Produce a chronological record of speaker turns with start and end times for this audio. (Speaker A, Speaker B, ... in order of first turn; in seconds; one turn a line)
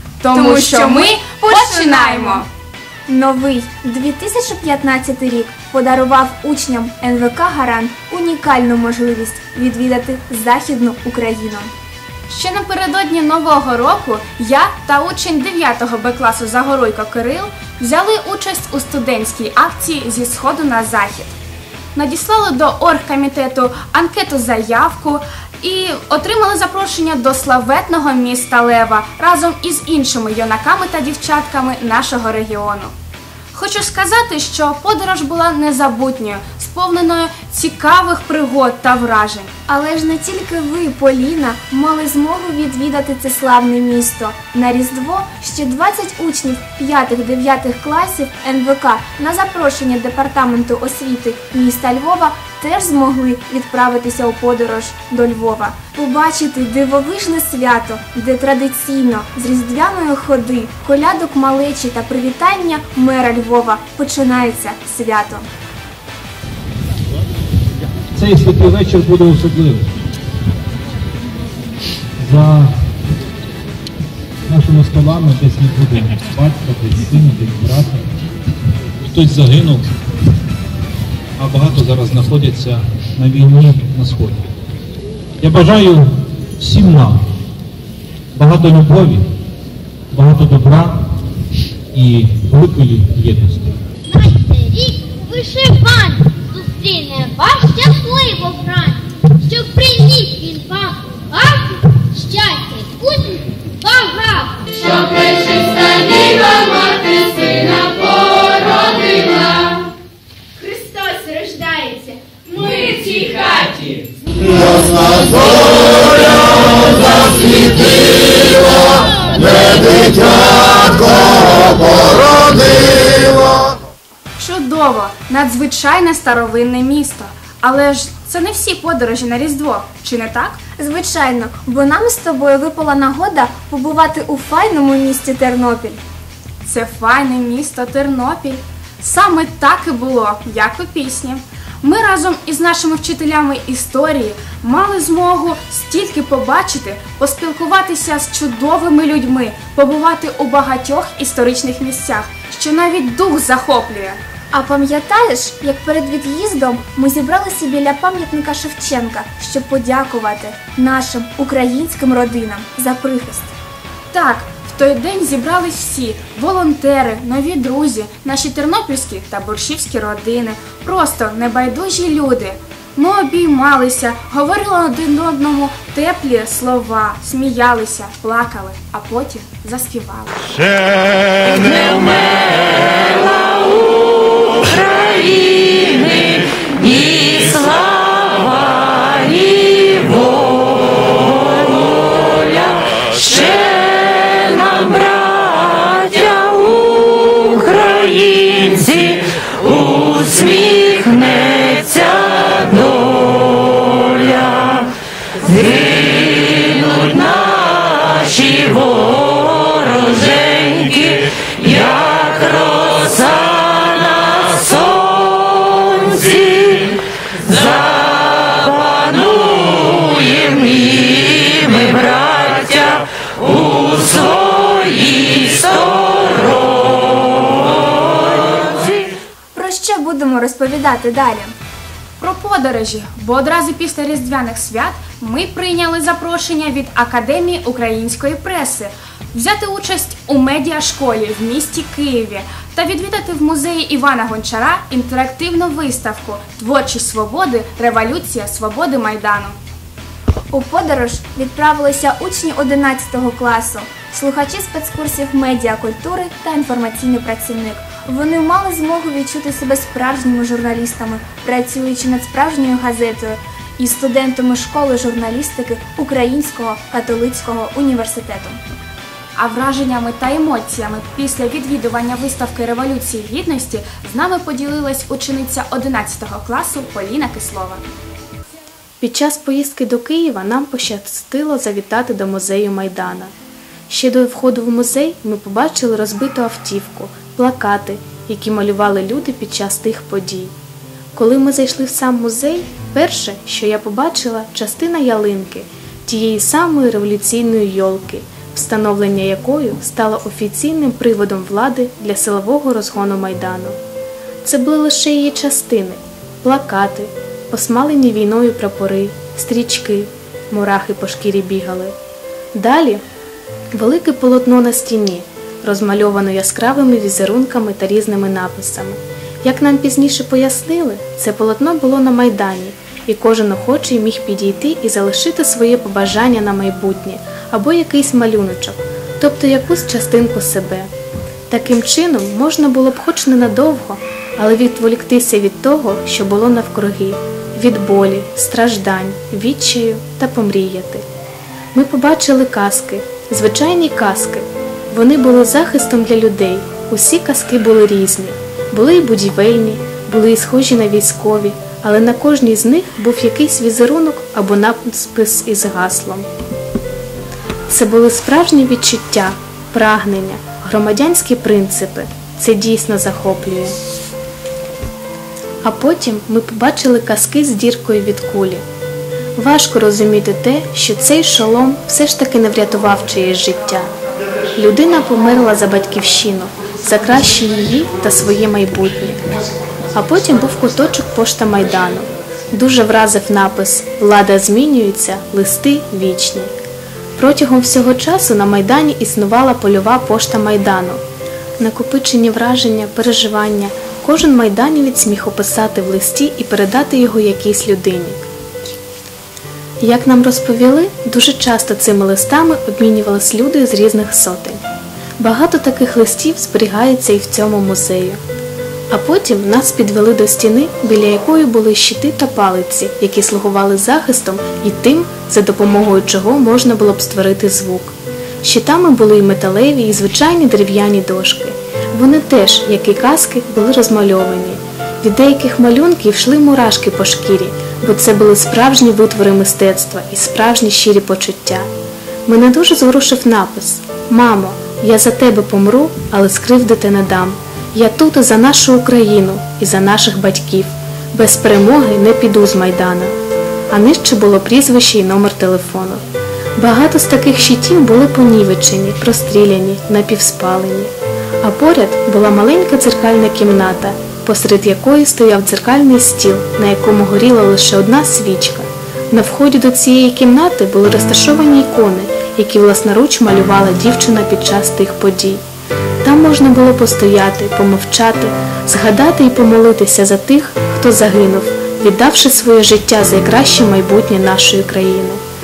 Speaker A: 0.2-2.5
Speaker B: 0.3-2.5
Speaker B: 3.1-11.7
Speaker A: 12.3-21.4
Speaker A: 21.9-32.9
Speaker A: 33.5-39.5
Speaker B: 39.7-65.5
Speaker C: 68.1-69.9
Speaker C: 72.2-72.8
Speaker C: 74.5-78.1
Speaker C: 79.1-79.9
Speaker C: 81.4-84.5
Speaker C: 85.4-87.2
Speaker C: 88.3-89.2
Speaker C: 90.1-91.1
Speaker C: 91.9-93.8
Speaker D: 94.1-109.8
Speaker D: 110.6-111.8
Speaker B: 110.7-112.1
Speaker D: 112.5-113.9
Speaker D: 114.6-115.4
Speaker A: 124.4-130.6
Speaker B: 130.8-136.0
Speaker A: 136.6-154.2
Speaker B: 154.5-163.5
Speaker A: 164.1-180.6
Speaker E: 184.7-204.9
Speaker E: 205.4-226.8
Speaker B: 229.6-231.5
Speaker A: 232.2-249.6
Speaker B: 250.5-268.6
Speaker A: 269.4-277.8
Speaker F: 279.0-283.3
Speaker F: 283.9-290.5
Speaker F: 291.1-303.8
Speaker F: 304.4-312.0
Speaker F: 312.5-313.0
Speaker F: 313.7-330.9
Speaker F: 331.5-341.0
Speaker F: 341.7-356.3
Speaker F: 357.7-363.8
Speaker F: 365.6-368.6
Speaker F: 369.4-373.9
Speaker F: 374.6-379.2
Speaker F: 379.9-386.5
Speaker F: 387.2-391.0
Speaker F: 391.6-398.3
Speaker F: 399.8-404.6
Speaker F: 405.2-408.2
Speaker F: 408.9-431.7
Speaker F: 432.3-443.1
Speaker F: 443.7-446.0
Speaker F: 446.6-465.4
Speaker F: 466.0-475.2